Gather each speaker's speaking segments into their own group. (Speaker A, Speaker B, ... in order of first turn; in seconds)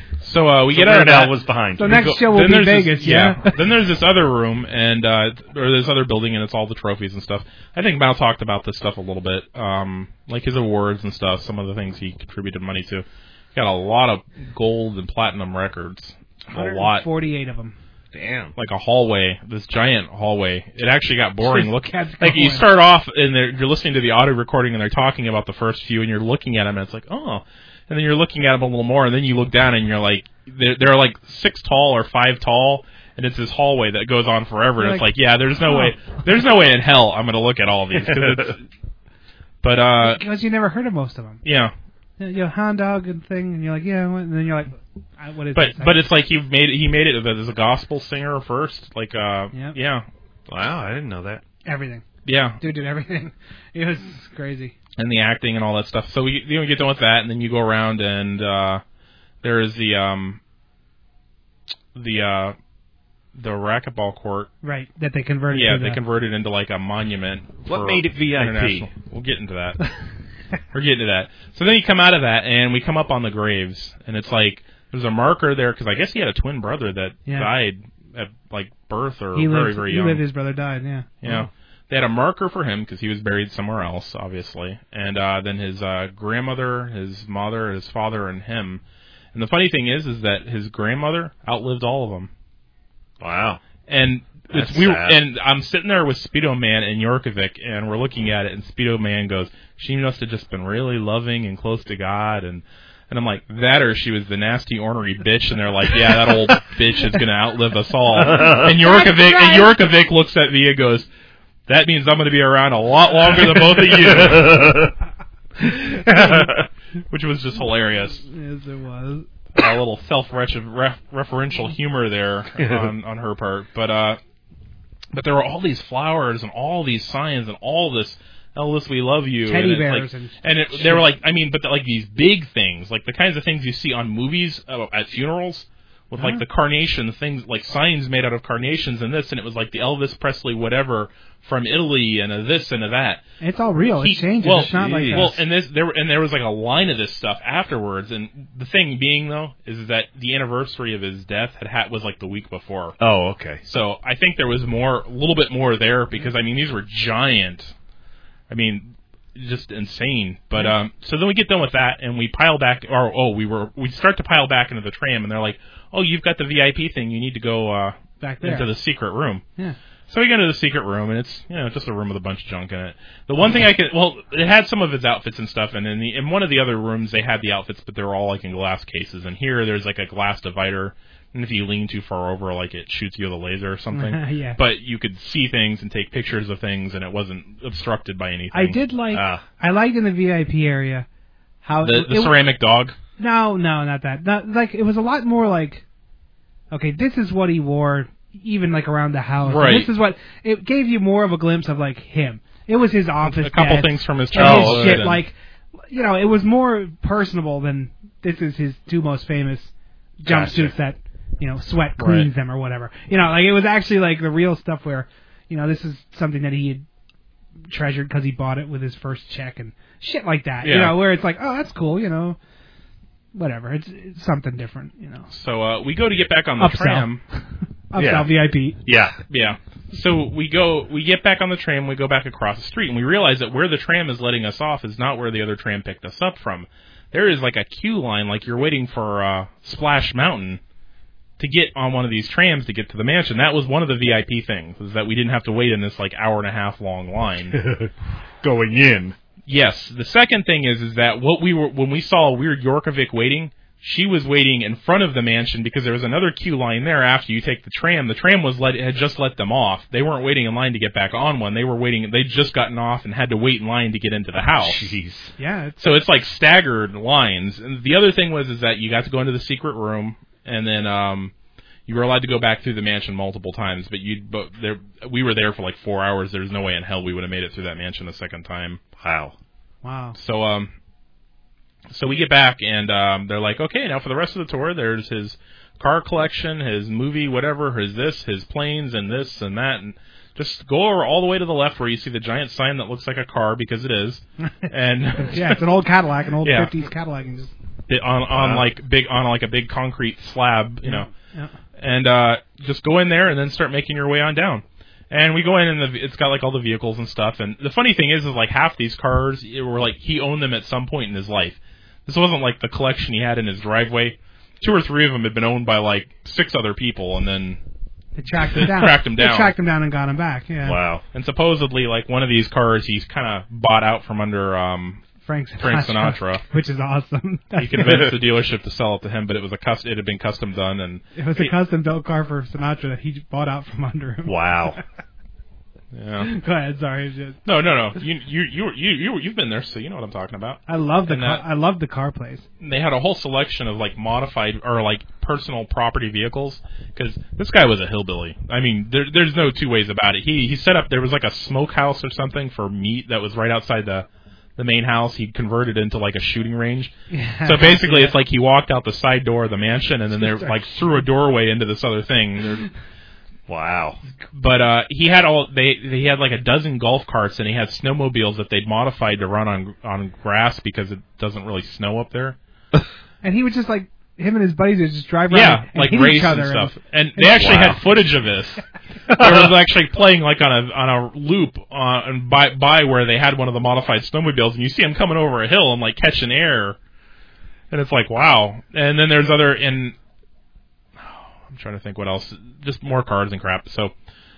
Speaker A: 0.2-17.1, 18.6-38.6, 39.6-40.2, 41.4-41.7, 45.5-50.1, 52.2-52.6, 55.0-58.8, 59.4-60.4, 62.0-62.6, 63.4-64.5, 65.5-69.9, 70.7-80.2, 81.2-88.8, 89.3-92.3, 93.9-111.1, 111.7-114.8, 117.1-118.2, 119.6-124.2, 125.1-143.2, 144.0-153.0, 153.7-157.7, 158.5-169.4, 170.1-188.8, 191.8-193.0, 199.4-199.9, 203.2-205.2, 212.0-212.3, 220.6-221.0, 225.3-227.2, 229.3-240.6, 241.4-247.6, 249.5-264.9, 265.8-271.3, 271.9-278.8, 280.2-280.7, 281.9-295.6, 296.4-296.7, 297.9-301.1, 301.8-317.6, 318.4-319.5, 321.1-325.1, 325.6-326.4, 327.6-331.5, 335.9-336.3, 337.5-341.4, 342.6-356.9, 357.4-362.7, 364.3-372.4, 375.3-386.8, 387.7-389.9, 391.0-393.9
Speaker B: 0.7-2.1, 18.1-18.5, 38.0-38.5, 50.5-51.4, 67.7-68.9, 93.2-93.6, 94.5-95.2, 108.2-108.7, 113.3-114.9, 115.9-116.7, 122.6-122.9, 144.5-145.4, 153.0-153.6, 189.1-189.4, 204.3-205.1, 210.2-210.8, 228.0-229.2, 247.5-249.2, 264.5-265.4, 279.0-279.4, 298.3-298.7, 320.6-321.0, 334.2-334.8, 363.5-364.0, 377.3-377.8, 379.1-379.5
Speaker C: 1.8-3.5, 16.5-17.8, 21.4-22.6, 34.8-35.1, 35.7-35.9, 40.0-41.4, 42.2-46.0, 51.7-52.0, 52.6-54.8, 64.6-66.0, 79.3-81.4, 108.5-109.7, 115.6-116.5, 118.2-119.3, 129.5-131.1, 136.2-136.4, 143.4-145.4, 168.2-168.7, 183.9-184.6, 188.5-191.1, 191.6-192.4, 193.2-195.8, 196.7-216.8, 217.7-222.4, 223.3-225.3, 226.6-228.8, 265.4-265.9, 279.8-280.2, 295.2-297.5, 300.8-301.5, 318.2-320.8, 325.2-328.1, 331.2-334.8, 336.2-337.4, 340.7-342.4, 357.1-358.2, 373.2-377.5